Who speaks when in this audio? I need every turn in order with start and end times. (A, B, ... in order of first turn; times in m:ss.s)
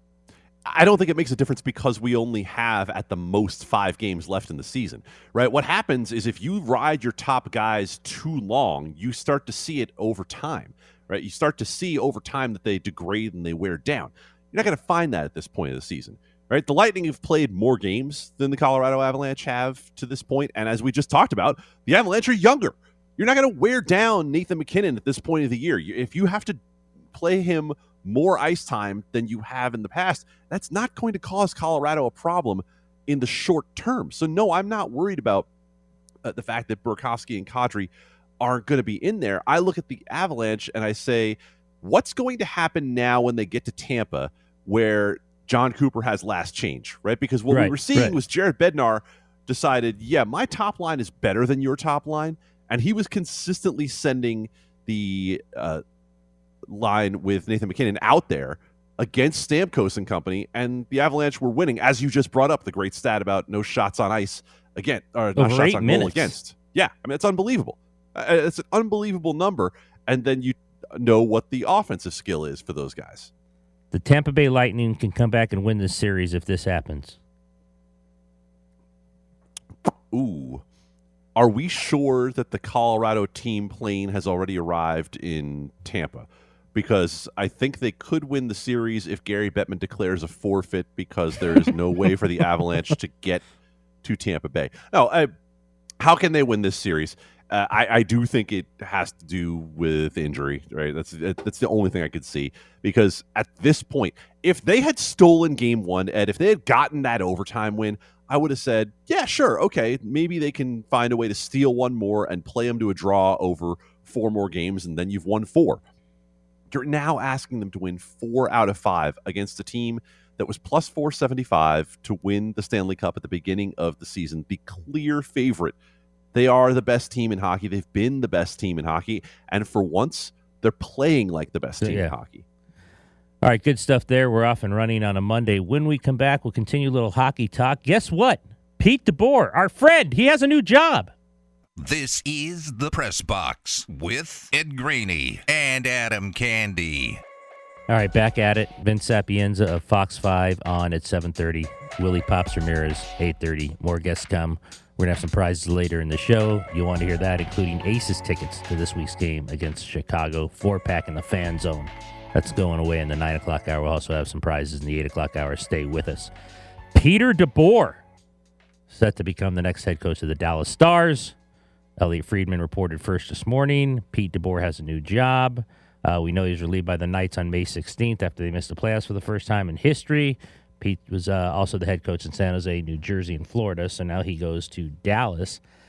0:00.7-0:26.6 A
0:27.1-0:35.5 A
0:36.2-0:55.8 A
0:47.5-0:48.2 B
0:56.7-1:13.3 A
1:05.4-1:06.3 B
1:13.9-1:17.2 B
1:19.9-1:20.6 A
1:21.4-1:33.4 A
1:34.0-1:35.3 A
1:36.0-1:55.8 A
1:56.7-2:05.8 A
2:06.3-2:12.4 A
2:11.8-2:12.1 B
2:13.4-2:21.1 B
2:21.8-2:27.2 C
2:27.9-2:46.3 B
2:46.9-2:48.0 B
2:48.9-2:51.4 B
2:52.0-3:05.6 B